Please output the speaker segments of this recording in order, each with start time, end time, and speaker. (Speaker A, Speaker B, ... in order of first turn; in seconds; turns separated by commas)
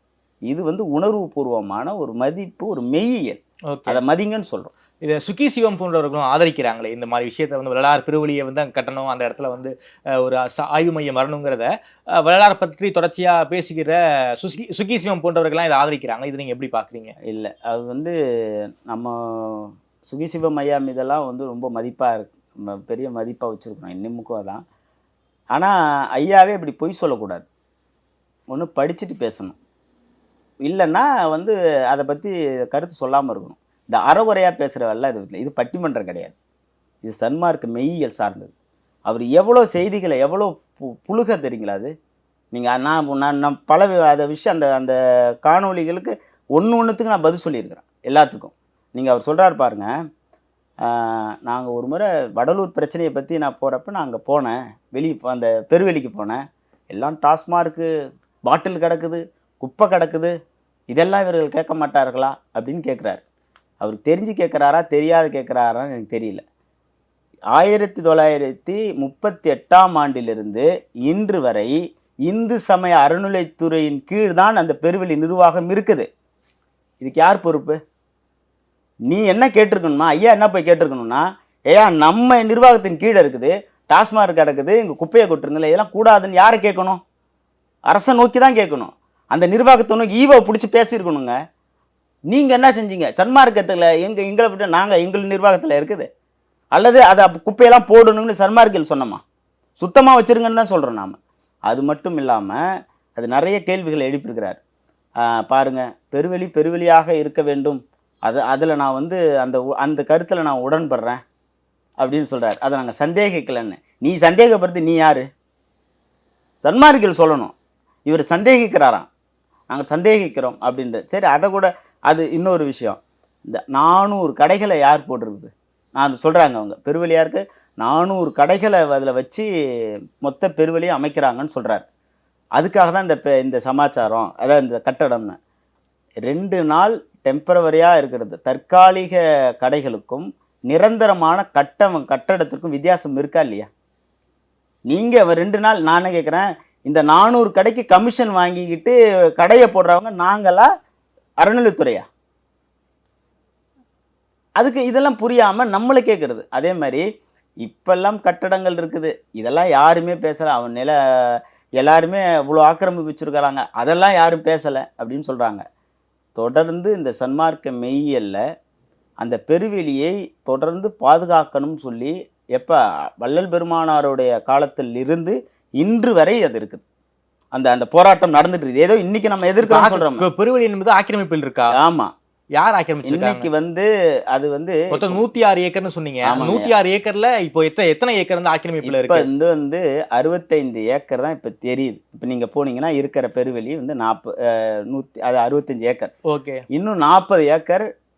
Speaker A: 0.5-4.7, Speaker B: 3.7-4.0, Speaker B: 5.0-17.1, Speaker A: 17.2-18.1, Speaker A: 18.9-24.6, Speaker A: 25.5-27.5, Speaker A: 28.5-29.6, Speaker A: 30.6-36.3, Speaker A: 37.0-38.5, Speaker A: 39.1-41.9, Speaker A: 42.5-49.9, Speaker A: 50.9-56.4, Speaker A: 56.9-57.9, Speaker A: 58.5-60.4, Speaker A: 60.9-63.2, Speaker A: 63.8-66.4, Speaker A: 67.5-76.1, Speaker A: 77.0-77.8, Speaker A: 79.1-87.0, Speaker A: 87.9-91.3, Speaker A: 92.3-96.1, Speaker A: 96.7-99.2, Speaker A: 99.8-101.2, Speaker A: 101.7-102.6, Speaker A: 103.2-104.6, Speaker A: 105.2-111.2, Speaker A: 112.0-115.3, Speaker A: 116.6-117.5, Speaker A: 118.1-119.1, Speaker A: 119.7-129.5, Speaker A: 130.2-131.8, Speaker A: 132.6-135.4, Speaker A: 136.2-143.7, Speaker A: 144.9-150.7, Speaker A: 151.4-152.1, Speaker A: 154.6-157.1, Speaker A: 157.6-165.6, Speaker A: 166.3-168.4, Speaker A: 169.2-176.8, Speaker A: 177.5-180.2, Speaker B: 179.6-181.7, Speaker A: 181.8-182.1, Speaker B: 182.6-183.5, Speaker A: 183.1-185.2, Speaker B: 184.9-189.3, Speaker A: 186.2-186.7, Speaker A: 188.8-196.1, Speaker B: 196.3-196.6, Speaker A: 196.7-197.8